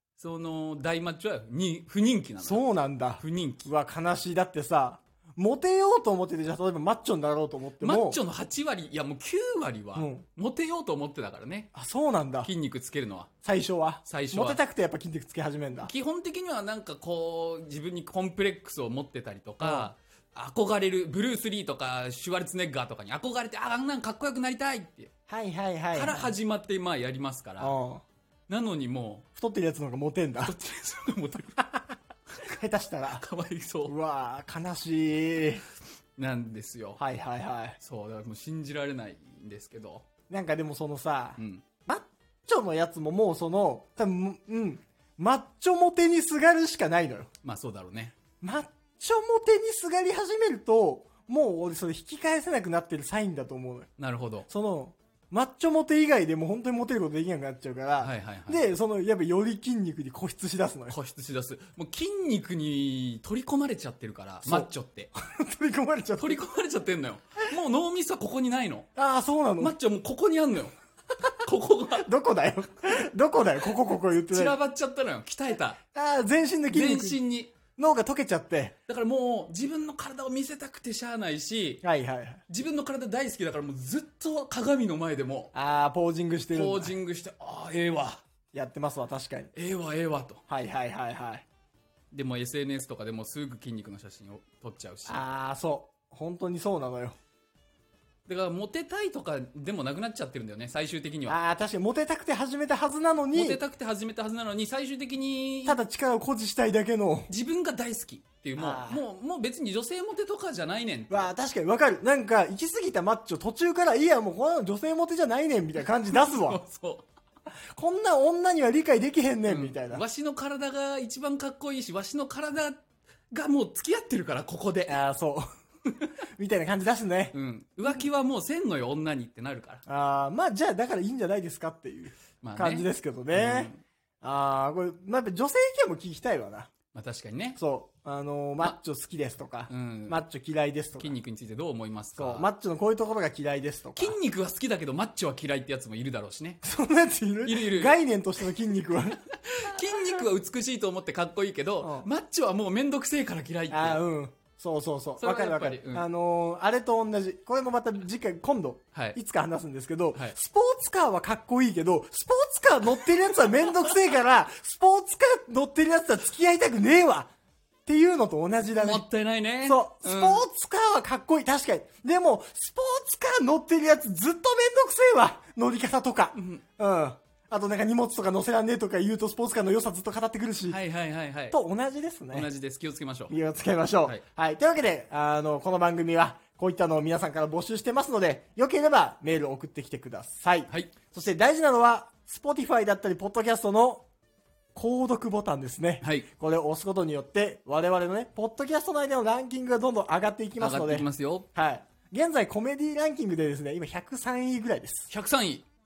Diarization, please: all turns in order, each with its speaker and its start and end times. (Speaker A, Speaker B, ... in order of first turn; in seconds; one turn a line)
Speaker A: 0.2-3.7
Speaker B: 2.4-8.2
Speaker A: 7.8-11.7
Speaker B: 9.9-10.2
Speaker B: 11.7-12.5
Speaker A: 12.4-13.3
Speaker B: 13.4-15.9
Speaker A: 14.1-14.6
Speaker A: 15.8-25.1
Speaker B: 19.6-19.9
Speaker B: 25.3-26.3
Speaker A: 25.9-27.8
Speaker B: 27.6-28.0
Speaker A: 28.5-29.3
Speaker B: 29.4-30.6
Speaker A: 30.4-31.8
Speaker A: 32.3-34.0
Speaker B: 32.5-33.2
Speaker B: 33.9-35.6
Speaker A: 36.2-37.0
Speaker B: 37.0-37.8
Speaker A: 37.8-40.1
Speaker B: 40.3-47.3
Speaker A: 41.4-41.6
Speaker A: 47.4-48.1
Speaker B: 48.4-53.9
Speaker A: 54.0-54.5
Speaker B: 54.5-61.0
Speaker A: 58.0-58.7
Speaker A: 60.9-65.1
Speaker B: 64.5-66.4
Speaker A: 66.2-68.9
Speaker B: 69.0-69.8
Speaker A: 69.6-70.8
Speaker A: 71.3-72.1
Speaker B: 71.9-74.6
Speaker A: 74.3-75.8
Speaker B: 75.9-77.2
Speaker A: 76.7-77.5
Speaker B: 77.8-78.8
Speaker A: 78.9-81.8
Speaker B: 81.8-82.4
Speaker A: 82.5-85.5
Speaker B: 85.5-87.0
Speaker A: 86.5-88.2
Speaker B: 88.5-89.5
Speaker A: 89.5-90.4
Speaker B: 90.5-91.5
Speaker A: 92.1-95.2
Speaker B: 95.1-97.2
Speaker A: 98.3-101.4
Speaker B: 101.3-103.6
Speaker A: 103.3-105.8
Speaker B: 105.7-107.3
Speaker A: 107.3-111.3
Speaker B: 108.6-109.0
Speaker B: 111.1-116.6
Speaker A: 116.1-117.0
Speaker B: 117.7-120.0
Speaker A: 119.5-125.0
Speaker B: 124.9-125.5
Speaker B: 126.3-127.3
Speaker A: 127.3-129.8
Speaker B: 129.9-136.7
Speaker A: 132.4-133.8
Speaker A: 136.9-137.6
Speaker B: 137.6-141.2
Speaker A: 139.7-140.2
Speaker A: 141.0-142.5
Speaker B: 142.2-144.2
Speaker A: 143.9-146.6
Speaker B: 146.6-149.2
Speaker A: 147.4-148.0
Speaker A: 149.1-154.0
Speaker B: 151.8-152.1
Speaker B: 153.7-167.3
Speaker A: 155.2-156.1
Speaker B: 167.9-169.1
Speaker A: 168.7-170.4
Speaker B: 169.7-180.8
Speaker A: 176.3-176.6
Speaker A: 180.7-181.6
Speaker B: 181.5-182.5
Speaker A: 182.3-183.3
Speaker B: 183.3-194.1
Speaker B: 194.8-205.1
Speaker A: 196.0-196.3
Speaker A: 200.6-201.5
Speaker A: 205.1-205.7